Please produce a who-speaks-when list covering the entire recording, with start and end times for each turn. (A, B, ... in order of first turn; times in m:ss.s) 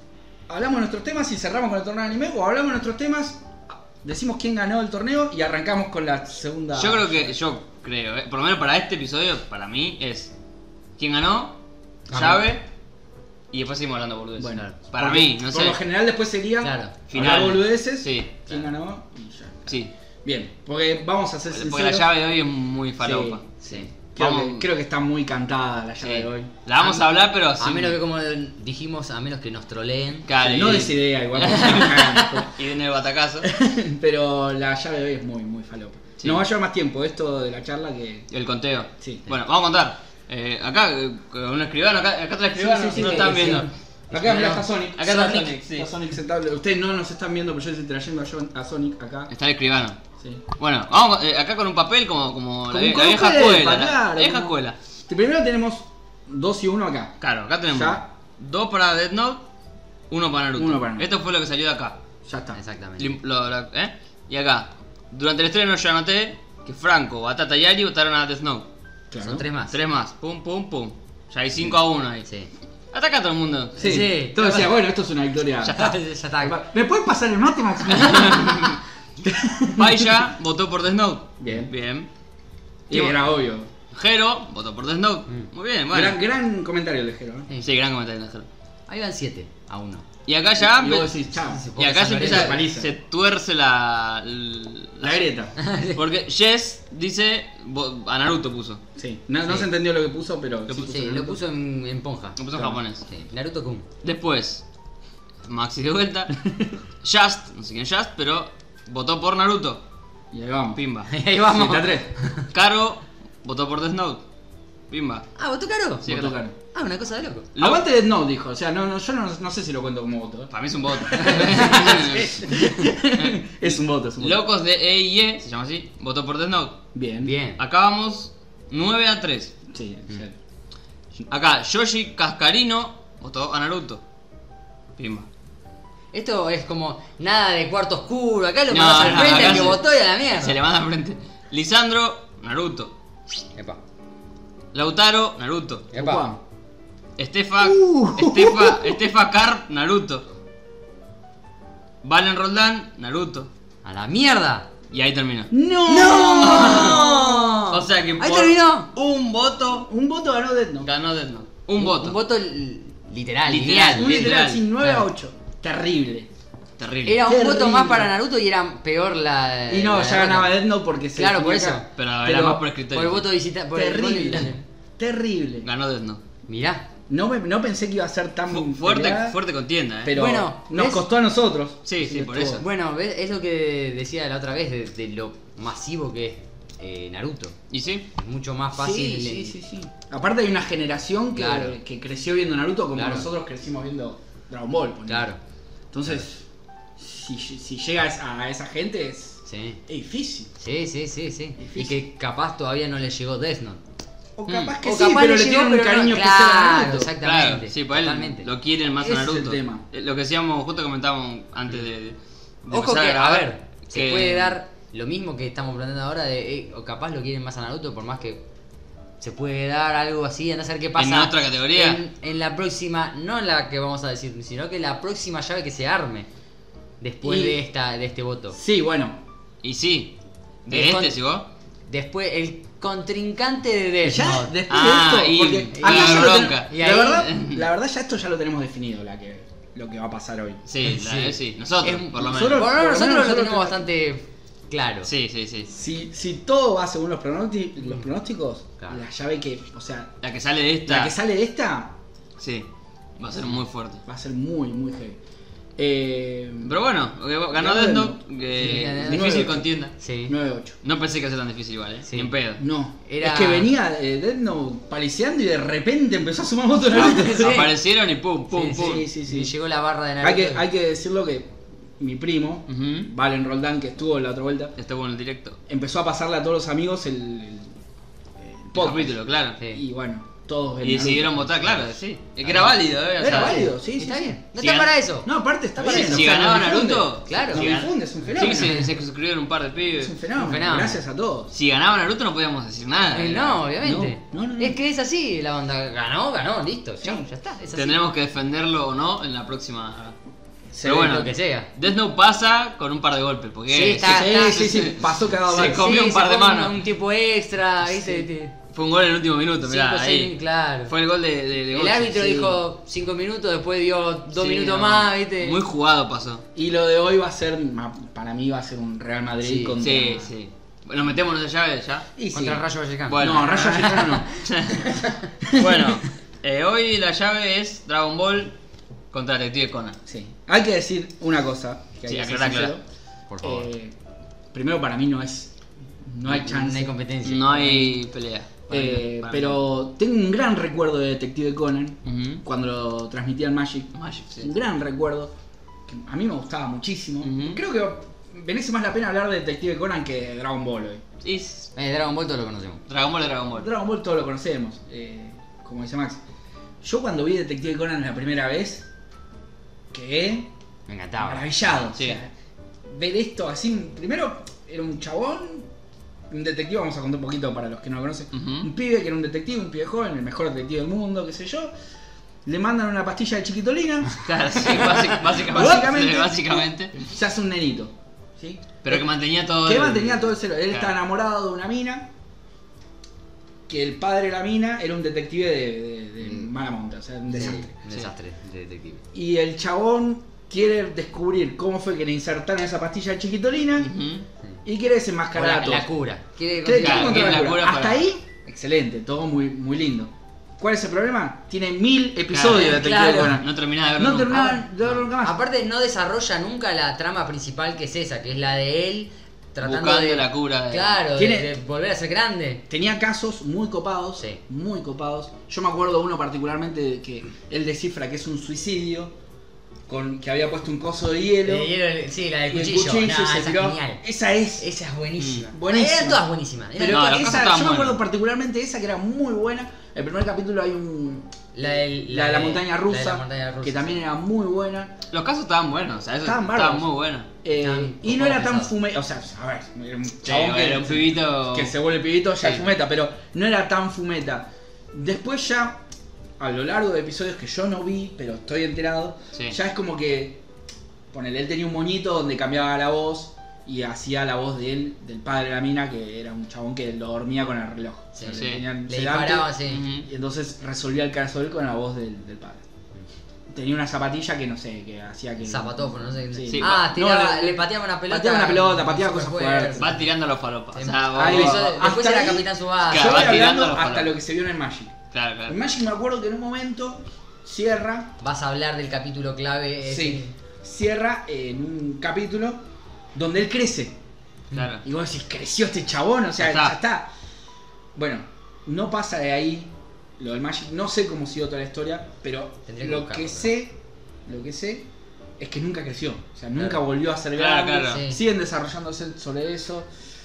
0:00.5-0:07.4 A
0:06.8-0:10.3 B
0:11.0-0:11.6 B
0:12.1-0:12.6 B
0:12.1-0:12.4 C
0:13.5-0:15.8 B
0:14.4-0:22.1 A
0:16.6-0:16.9 C
0:17.1-0:18.4 B
0:21.5-0:24.7 B
0:23.0-0:26.5 A
0:26.0-0:28.0 B
0:26.8-0:30.3 C
0:30.3-0:33.5 B
0:30.4-0:32.6 A
0:33.4-0:38.3 A
0:38.3-0:45.9 B
0:42.5-0:49.3 A
0:42.9-0:43.7 C
0:44.2-0:44.6 C
0:49.3-0:50.0 B
0:50.6-0:54.8 B
0:52.7-0:54.6 A
0:55.1-0:57.2 A
0:57.2-0:59.4 B
0:57.7-0:58.1 A
1:00.1-1:02.0 B
1:00.6-1:01.1 A
1:02.3-1:02.6 A
1:02.5-1:03.2 C
1:03.0-1:08.7 B
1:09.1-1:09.4 A
1:09.2-1:09.8 C
1:09.7-1:12.3 B
1:12.2-1:12.5 C
1:12.9-1:13.8 B
1:13.8-1:15.9 A
1:13.8-1:14.8 C
1:15.6-1:16.0 B
1:15.7-1:16.6 C
1:16.4-1:20.3 A
1:17.9-1:18.8 B
1:19.8-1:22.1 B
1:21.4-1:21.7 A
1:22.9-1:23.7 A
1:22.9-1:23.2 B
1:23.9-1:26.2 B
1:25.9-1:27.5 A
1:27.6-1:28.5 B
1:28.9-1:30.0 C
1:30.3-1:31.1 B
1:30.6-1:32.9 A
1:31.4-1:32.7 C
1:31.8-1:35.3 B
1:35.0-1:35.6 A
1:35.6-1:36.0 C
1:36.0-1:38.8 B
1:39.0-1:41.4 A
1:40.8-1:43.9 C
1:42.4-1:43.0 B
1:44.0-1:44.6 B
1:45.4-1:46.4 B
1:47.0-1:49.8 B
1:50.3-1:50.8 A
1:50.8-1:51.1 B
1:51.1-1:52.5 C
1:51.5-1:52.1 A
1:52.5-1:54.2 B
1:54.9-1:55.3 B
1:55.4-1:56.1 C
1:56.0-1:56.4 B
1:56.1-1:56.5 A
1:56.7-1:57.5 C
1:57.6-1:57.8 B
1:57.6-2:04.5 A
2:00.5-2:06.8 B
2:01.1-2:02.2 C
2:06.9-2:07.3 A
2:07.2-2:07.6 C
2:07.6-2:09.5 B
2:09.7-2:10.4 A
2:11.3-2:14.0 B
2:15.0-2:15.3 B
2:16.1-2:20.6 C
2:18.7-2:22.9 B
2:24.7-2:25.9 B
2:25.9-2:26.3 C
2:25.9-2:26.4 A
2:27.2-2:30.3 B
2:27.6-2:29.0 A
2:32.0-2:33.5 B
2:33.8-2:34.7 C
2:34.9-2:39.9 B
2:35.5-2:37.5 A
2:35.9-2:38.9 C
2:39.8-2:40.9 A
2:40.8-2:42.2 B
2:41.8-2:45.1 C
2:43.5-2:44.6 B
2:44.0-2:46.3 A
2:46.8-2:47.2 B
2:47.0-2:50.6 C
2:47.3-2:48.1 A
2:49.7-2:52.6 A
2:51.2-2:51.9 C
2:52.0-2:53.3 B
2:52.9-2:54.6 C
2:53.7-2:55.7 A
2:55.6-2:56.2 B
2:56.5-2:56.9 C
2:57.1-2:59.4 A
2:58.5-3:00.2 B
3:00.0-3:02.6 A
3:00.1-3:01.0 C
3:01.9-3:02.6 B
3:02.6-3:07.6 C
3:07.7-3:08.1 B
3:08.2-3:09.6 C
3:08.8-3:15.3 A
3:11.4-3:11.8 C
3:13.0-3:13.3 C
3:15.1-3:15.4 C
3:15.9-3:16.4 A
3:17.0-3:20.5 A
3:19.5-3:19.8 C
3:20.6-3:23.8 C
3:21.6-3:22.0 A
3:24.4-3:27.1 A
3:24.8-3:28.5 C
3:27.2-3:34.6 B
3:29.0-3:29.8 A
3:32.7-3:38.4 C
3:39.2-3:46.3 C
3:41.0-3:42.0 B
3:47.0-3:48.6 C
3:47.2-3:47.6 A
3:48.6-3:49.2 A
3:49.6-3:50.1 B
3:50.7-3:51.2 C
3:50.7-3:51.5 B
3:51.9-3:54.6 C
3:54.0-4:00.6 A
3:54.7-3:57.6 B
3:55.7-3:57.3 C
4:00.7-4:02.7 B
4:00.8-4:05.1 C
4:02.1-4:03.9 A
4:05.0-4:05.7 B
4:05.7-4:10.1 A
4:10.2-4:11.2 B
4:10.9-4:12.0 A
4:12.4-4:12.7 B
4:13.2-4:14.0 B
4:14.1-4:15.2 A
4:15.8-4:16.8 A
4:16.6-4:20.0 B
4:17.6-4:19.7 A
4:18.6-4:19.5 C
4:20.0-4:20.4 C
4:20.3-4:20.8 A
4:20.8-4:22.6 B
4:22.1-4:22.4 C
4:22.6-4:27.6 A
4:23.0-4:23.7 C
4:26.9-4:27.8 C
4:27.0-4:29.1 B
4:28.5-4:30.6 C
4:28.7-4:29.5 A
4:30.2-4:34.8 A
4:32.7-4:33.1 B
4:34.8-4:35.6 B
4:35.7-4:37.8 A
4:38.4-4:41.5 A
4:38.7-4:39.6 B
4:40.8-4:43.7 B
4:42.4-4:46.5 C
4:43.2-4:44.4 A
4:44.6-4:44.9 B
4:45.2-4:48.9 A
4:45.8-4:50.2 B
4:47.3-4:47.7 C
4:48.4-4:48.9 C
4:50.0-4:51.5 A
4:50.4-4:51.0 C
4:51.5-4:53.6 B
4:53.1-4:58.0 C
4:53.8-4:54.8 A
4:57.7-5:00.2 B
5:00.7-5:01.3 A
5:00.8-5:06.8 B
5:00.9-5:01.7 C
5:03.7-5:04.7 C
5:04.0-5:05.9 A
5:05.5-5:08.5 C
5:08.7-5:10.3 B
5:09.7-5:10.9 C
5:10.9-5:12.5 B
5:11.7-5:15.6 C
5:12.2-5:12.5 A
5:14.4-5:16.4 B
5:16.6-5:20.3 A
5:19.4-5:20.2 C
5:19.8-5:22.1 B
5:22.2-5:24.4 A
5:22.3-5:25.3 C
5:23.1-5:23.9 B
5:24.4-5:24.9 B
5:25.4-5:26.0 A
5:25.5-5:28.5 B
5:29.1-5:30.0 B
5:30.1-5:32.8 A
5:32.1-5:32.8 B
5:33.3-5:33.7 C
5:33.4-5:34.0 A
5:34.5-5:37.0 A
5:36.3-5:38.0 C
5:37.2-5:39.7 B
5:38.7-5:45.3 A
5:42.0-5:42.4 B
5:44.0-5:44.5 B
5:45.9-5:51.0 A
5:47.2-5:47.6 B
5:51.2-5:51.7 B
5:51.8-5:52.8 C
5:52.9-5:53.7 B
5:53.5-5:56.2 A
5:56.8-5:58.9 A
5:59.9-6:00.5 A
6:00.9-6:01.4 C
6:01.2-6:02.3 A
6:02.0-6:02.2 B
6:02.8-6:05.7 A
6:06.3-6:11.7 A
6:08.3-6:08.7 B
6:12.4-6:19.1 A
6:14.2-6:17.0 B
6:18.8-6:21.0 B
6:19.6-6:22.1 A
6:23.7-6:27.7 A
6:27.3-6:29.0 C
6:29.1-6:33.9 A
6:33.8-6:34.2 B
6:34.6-6:35.9 A
6:35.4-6:37.4 C
6:36.6-6:45.4 A
6:36.8-6:38.0 B
6:42.3-6:45.0 B
6:42.6-6:43.4 C
6:45.2-6:52.6 C
6:49.6-6:51.0 B
6:51.2-6:51.5 A
6:52.7-6:59.1 A
6:59.9-7:01.7 A
7:01.4-7:04.0 C
7:02.5-7:04.7 A
7:04.6-7:07.2 C
7:05.2-7:05.5 B
7:05.5-7:06.2 A
7:06.8-7:15.0 A
7:06.9-7:08.0 B
7:11.5-7:14.0 C
7:15.1-7:17.3 B
7:16.2-7:16.9 A
7:17.4-7:25.8 A
7:17.5-7:18.7 C
7:20.2-7:21.7 B
7:26.4-7:30.4 A
7:31.1-7:42.6 A
7:38.2-7:39.9 C
7:38.3-7:38.6 B
7:39.7-7:40.1 B
7:43.5-7:50.0 A
7:45.4-7:50.0 C
7:46.5-7:46.8 B
7:49.8-7:51.7 B
7:50.7-7:53.4 C
7:51.1-7:58.1 A
7:52.8-7:54.1 B
7:55.1-7:55.6 B
7:58.2-8:00.3 C
7:59.8-8:02.6 A
8:03.2-8:04.0 A
8:04.5-8:04.8 B
8:04.8-8:07.1 A
8:06.4-8:06.8 B
8:08.0-8:14.9 A
8:12.7-8:13.5 C
8:15.4-8:19.9 A
8:17.4-8:18.0 B
8:17.9-8:18.2 C